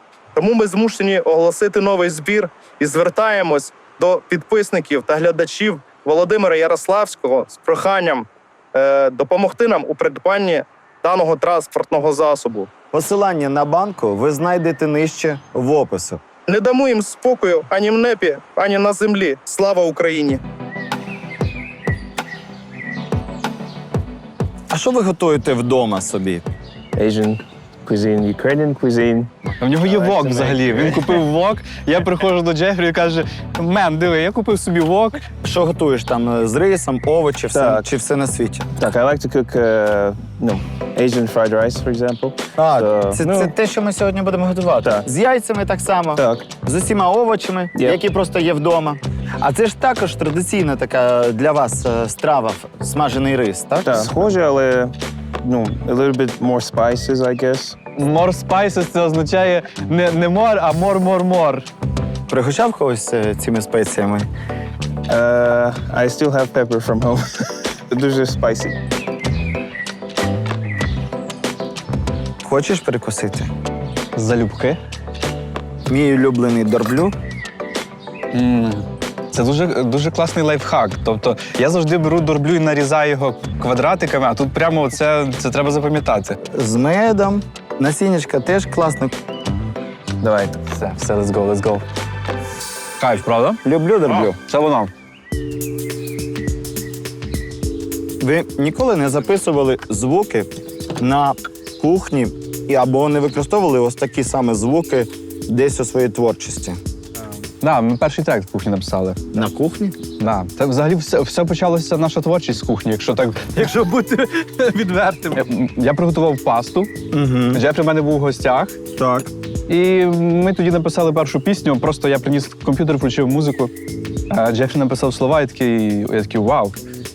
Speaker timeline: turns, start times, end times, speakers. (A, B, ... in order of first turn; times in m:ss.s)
0:00.3-0:12.7 A
0:12.9-0:16.2 B
0:16.5-0:20.4 A
0:24.7-0:26.4 B
0:27.0-0:31.2 C
0:29.6-0:35.2 D
0:35.4-0:38.7 B
0:37.5-0:37.8 C
0:38.8-0:43.5 C
0:42.6-0:54.1 B
0:46.2-0:46.5 C
0:53.8-0:57.8 C
0:58.0-1:01.7 D
1:02.3-1:04.3 B
1:05.1-1:08.8 C
1:12.4-1:13.5 B
1:14.1-1:14.8 D
1:15.9-1:17.1 B
1:18.3-1:26.4 D
1:26.5-1:29.1 B
1:30.2-1:30.6 C
1:30.6-1:31.8 D
1:33.0-1:33.6 D
1:33.6-1:34.4 B
1:34.4-1:34.9 D
1:38.2-1:46.8 B
1:47.6-1:49.2 D
1:49.3-1:50.0 B
1:50.2-1:56.9 D
1:57.1-1:57.6 B
1:57.5-1:58.8 D
1:59.0-1:59.3 B
1:59.7-2:03.7 D
2:04.3-2:06.7 D